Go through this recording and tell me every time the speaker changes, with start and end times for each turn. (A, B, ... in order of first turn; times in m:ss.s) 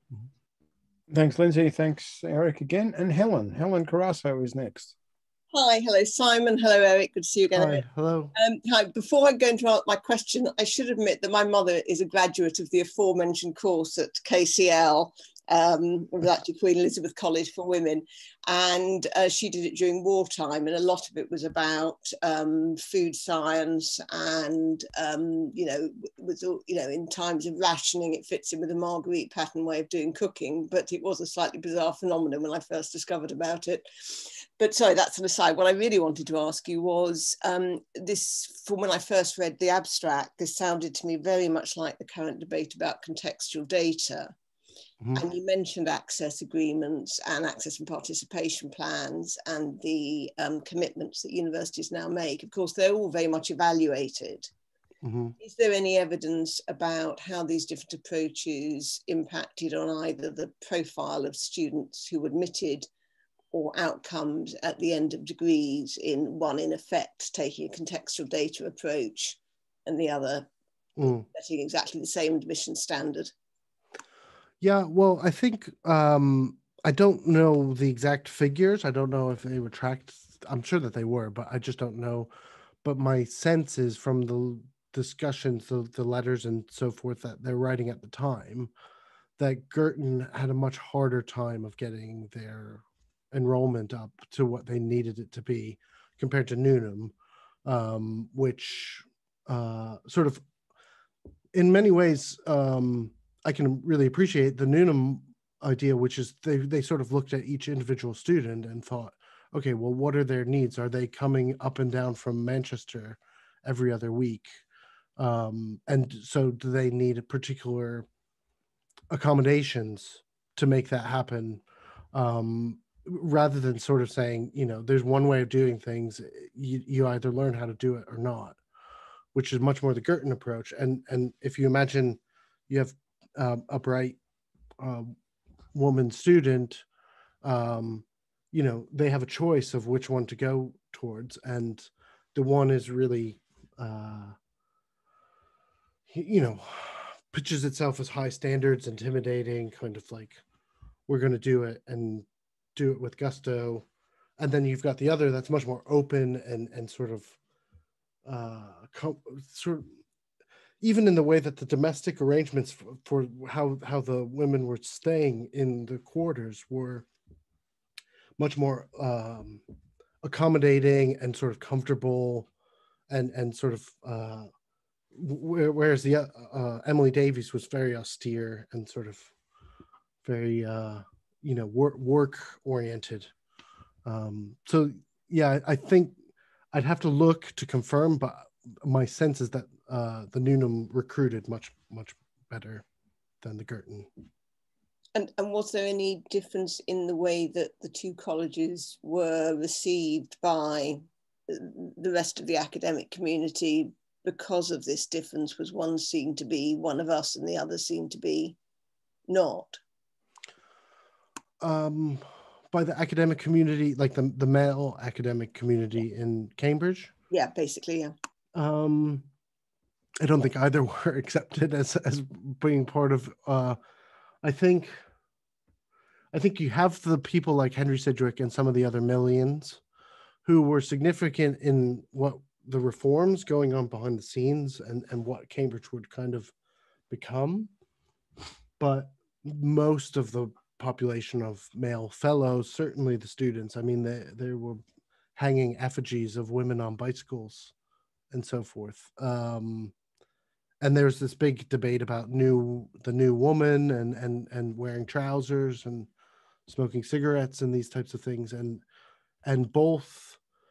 0:01.1-0:04.9 A
0:05.5-0:07.8 B
0:07.5-0:08.3 C
0:08.4-0:33.9 B
0:34.6-0:44.3 B
0:45.2-0:54.5 B
0:55.0-0:55.4 C
0:55.4-1:02.9 B
1:03.5-1:09.4 B
1:09.9-1:10.5 B
1:11.0-1:11.2 C
1:11.3-1:13.3 B
1:14.6-1:22.3 C
1:22.8-1:28.7 C
1:29.4-1:37.1 C
1:37.6-1:40.4 C
1:41.5-1:54.6 C
1:55.2-1:58.1 C
1:59.1-2:08.6 C
2:09.3-2:14.2 C
2:14.8-2:15.2 C
2:15.7-2:16.8 C
2:17.4-2:24.4 C
2:26.1-2:30.4 C
2:31.1-2:33.8 C
2:34.4-2:37.4 C
2:38.2-2:39.9 C
2:40.8-2:47.1 C
2:48.4-2:49.6 C
2:50.2-2:52.5 C
2:53.1-2:54.5 C
2:55.1-2:59.3 C
3:00.2-3:03.3 C
3:04.0-3:06.2 C
3:06.7-3:12.8 C
3:13.4-3:14.1 C
3:15.2-3:28.6 B
3:29.3-3:29.8 B
3:31.6-3:37.1 C
3:37.3-3:38.1 B
3:38.6-3:39.3 C
3:40.2-3:43.8 C
3:44.4-3:45.0 C
3:46.3-3:49.8 C
3:50.4-3:56.5 C
3:57.1-3:57.7 C
3:58.8-4:04.8 C
4:05.4-4:07.7 C
4:08.3-4:09.9 C
4:10.8-4:16.1 C
4:16.7-4:18.8 C
4:19.4-4:20.4 C